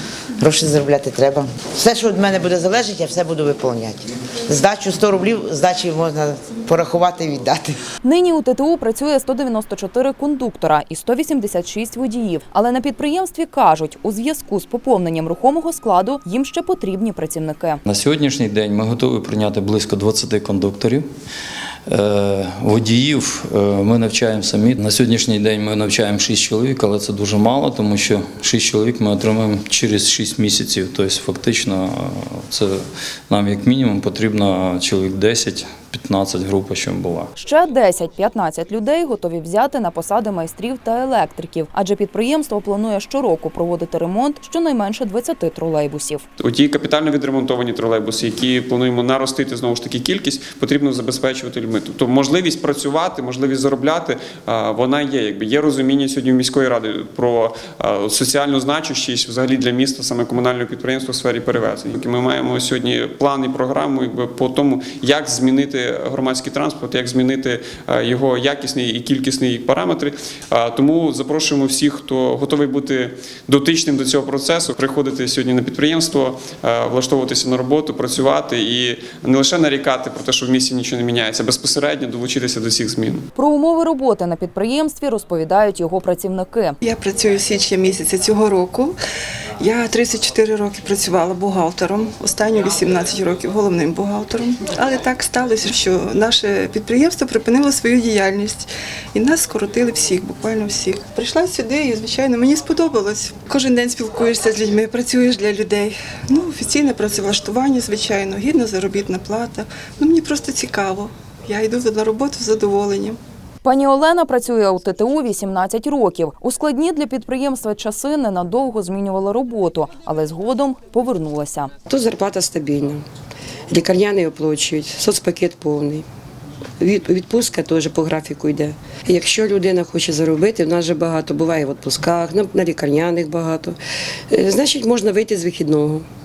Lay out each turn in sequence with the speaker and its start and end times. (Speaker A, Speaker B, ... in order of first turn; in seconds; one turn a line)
Speaker A: 0.4-7.8
Speaker B: 8.0-17.8
Speaker C: 17.9-21.1
Speaker C: 21.9-37.3
Speaker B: 37.4-46.2
Speaker D: 46.4-83.2
Speaker B: 83.3-86.8
Speaker E: 86.8-89.0
Speaker E: 89.6-113.2
Speaker B: 113.6-121.7
Speaker F: 121.9-123.0
Speaker F: 123.7-126.0
Speaker F: 126.8-133.8
Speaker F: 134.3-136.1